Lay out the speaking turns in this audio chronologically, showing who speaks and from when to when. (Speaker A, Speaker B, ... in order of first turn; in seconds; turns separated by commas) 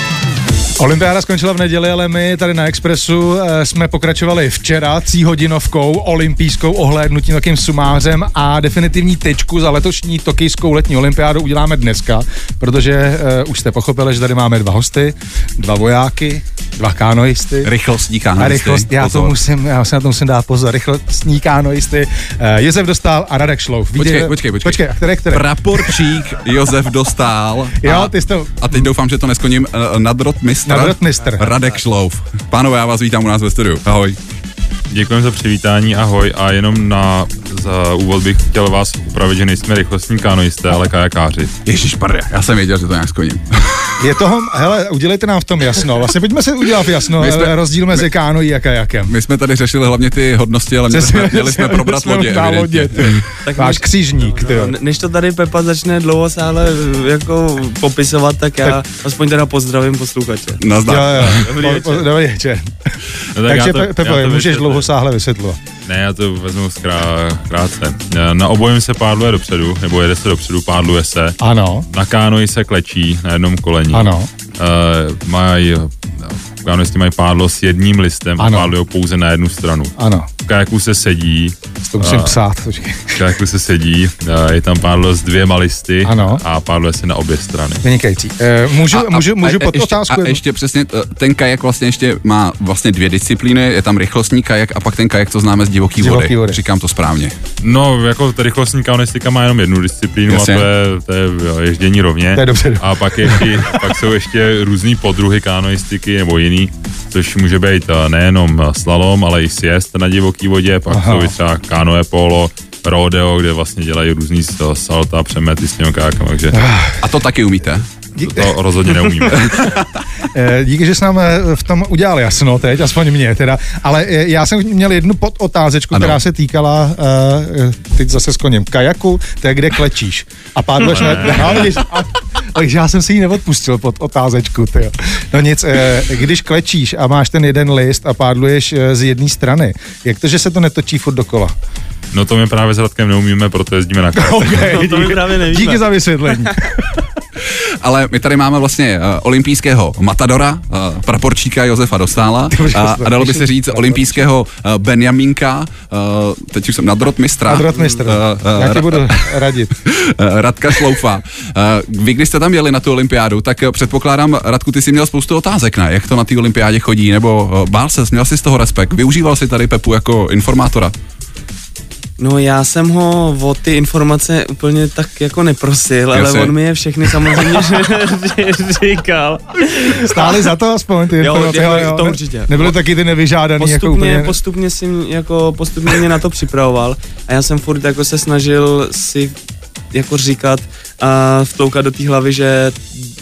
Speaker A: 0.8-17.7, Speaker B: 17.6-19.4, Speaker A: 18.4-26.1, Speaker B: 23.9-34.2, Speaker A: 27.8-28.9, Speaker A: 30.6-31.6, Speaker C: 34.9-41.5, Speaker B: 41.6-44.0, Speaker A: 44.0-49.1, Speaker B: 47.1-48.0, Speaker B: 49.1-53.2, Speaker A: 50.9-54.8, Speaker D: 53.4-60.6, Speaker B: 60.6-61.4, Speaker A: 60.8-65.6, Speaker D: 61.1-62.1, Speaker C: 63.3-64.9, Speaker C: 65.8-71.4, Speaker A: 71.4-71.8, Speaker C: 71.9-82.4, Speaker A: 73.9-74.3, Speaker A: 78.4-78.7, Speaker A: 80.0-80.3, Speaker A: 81.8-83.2, Speaker C: 83.1-87.8, Speaker A: 86.0-86.4, Speaker A: 87.8-90.4, Speaker B: 88.9-97.3, Speaker A: 96.0-96.6, Speaker C: 97.6-116.6, Speaker B: 100.3-100.7, Speaker A: 102.3-103.7, Speaker A: 110.9-111.3, Speaker A: 116.5-117.0, Speaker B: 117.0-117.8, Speaker A: 118.2-119.5, Speaker C: 118.2-119.7, Speaker B: 119.4-119.9, Speaker A: 120.2-141.5, Speaker B: 125.9-126.2, Speaker C: 130.8-131.6, Speaker C: 142.1-144.7, Speaker A: 144.1-147.1, Speaker D: 144.5-146.5, Speaker B: 147.8-170.9, Speaker A: 152.5-154.2, Speaker A: 157.4-159.8, Speaker D: 157.7-158.0, Speaker D: 172.2-180.5, Speaker B: 176.1-176.5, Speaker B: 177.1-177.3, Speaker A: 180.0-184.4, Speaker D: 181.2-182.7, Speaker D: 183.6-189.3, Speaker D: 189.9-192.9